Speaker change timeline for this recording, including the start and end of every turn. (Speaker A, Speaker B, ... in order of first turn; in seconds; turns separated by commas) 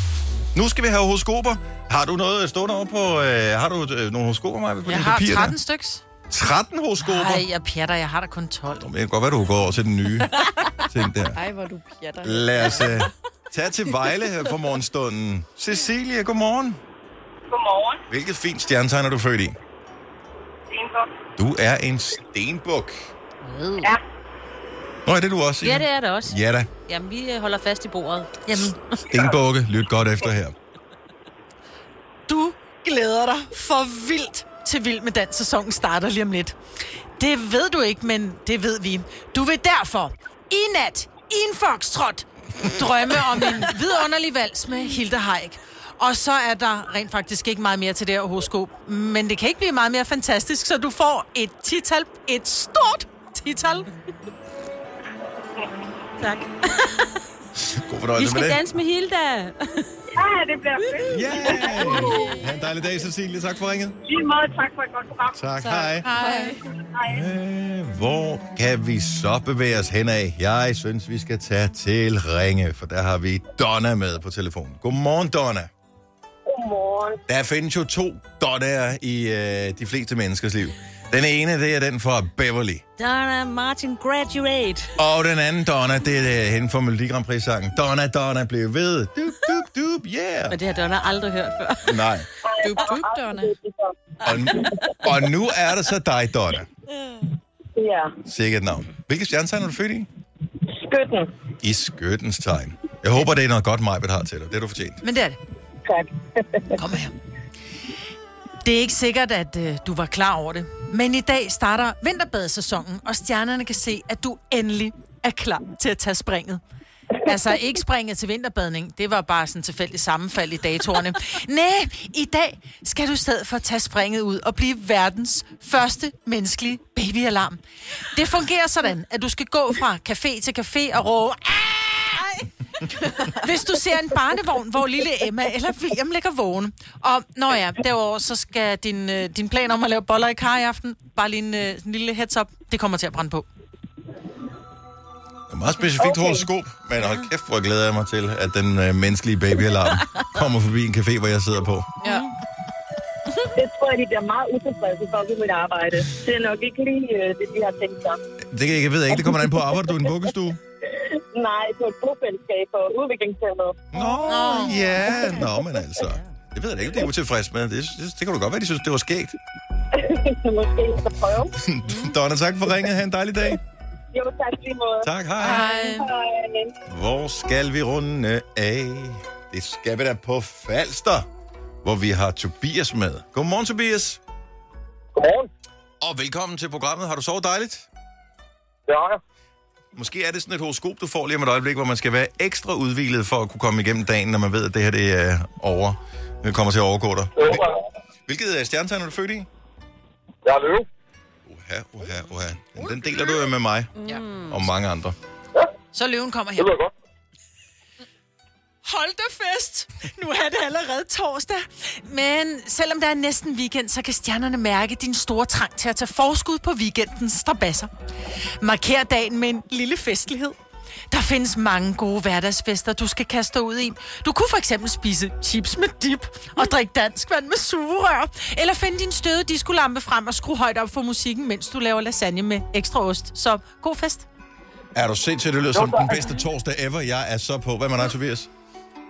Speaker A: 0.5-5.6, Speaker B: 4.8-6.0, Speaker A: 6.3-7.4, Speaker B: 7.0-8.8, Speaker A: 8.8-11.4, Speaker C: 11.3-12.9, Speaker A: 12.2-16.8, Speaker D: 17.5-18.0, Speaker A: 18.1-19.6, Speaker D: 20.7-21.1, Speaker A: 21.4-22.9, Speaker E: 23.4-23.9, Speaker A: 25.0-26.7, Speaker E: 25.6-29.0, Speaker A: 28.5-30.5, Speaker B: 32.3-36.5, Speaker B: 37.2-53.9, Speaker E: 56.2-57.1, Speaker A: 57.6-58.6, Speaker E: 58.1-59.9, Speaker D: 60.1-62.5, Speaker A: 61.1-64.0, Speaker C: 61.9-62.3, Speaker D: 64.0-65.4, Speaker A: 65.3-66.1, Speaker C: 65.6-66.6, Speaker B: 66.2-66.5, Speaker D: 66.8-67.2, Speaker A: 67.1-75.7, Speaker D: 76.5-77.2, Speaker A: 77.3-82.8, Speaker E: 83.0-84.9, Speaker A: 85.0-90.6, Speaker E: 90.5-92.1, Speaker A: 91.8-92.3, Speaker D: 92.4-95.1, Speaker C: 92.6-93.5, Speaker A: 94.2-96.7, Speaker D: 97.8-98.1, Speaker A: 98.2-100.1, Speaker D: 100.7-101.3, Speaker A: 101.6-105.0, Speaker B: 105.0-105.4, Speaker D: 105.8-106.8, Speaker B: 106.8-107.1, Speaker B: 108.6-116.6, Speaker B: 117.2-127.6, Speaker B: 128.1-143.5, Speaker A: 145.5-151.9, Speaker D: 146.0-146.4, Speaker D: 153.4-158.2, Speaker A: 158.5-160.6, Speaker D: 159.3-159.7, Speaker D: 160.9-165.5, Speaker A: 163.9-169.3, Speaker E: 164.3-165.3, Speaker B: 164.3-164.8, Speaker D: 169.9-171.5, Speaker A: 171.6-173.6, Speaker D: 174.1-176.7, Speaker A: 175.0-175.7, Speaker C: 175.4-176.1, Speaker A: 176.9-181.3, Speaker A: 181.8-184.2, Speaker F: 185.1-185.5, Speaker A: 186.0-187.9, Speaker F: 188.9-189.2, Speaker A: 189.9-197.7, Speaker F: 197.4-197.8, Speaker A: 198.3-199.5, Speaker F: 200.4-200.9, Speaker A: 201.4-205.2, Speaker E: 204.1-204.4, Speaker B: 205.9-206.7, Speaker F: 206.6-206.9, Speaker B: 208.8-217.9, Speaker B: 218.6-220.6, Speaker B: 221.1-234.3, Speaker A: 234.9-238.5, Speaker F: 235.7-236.3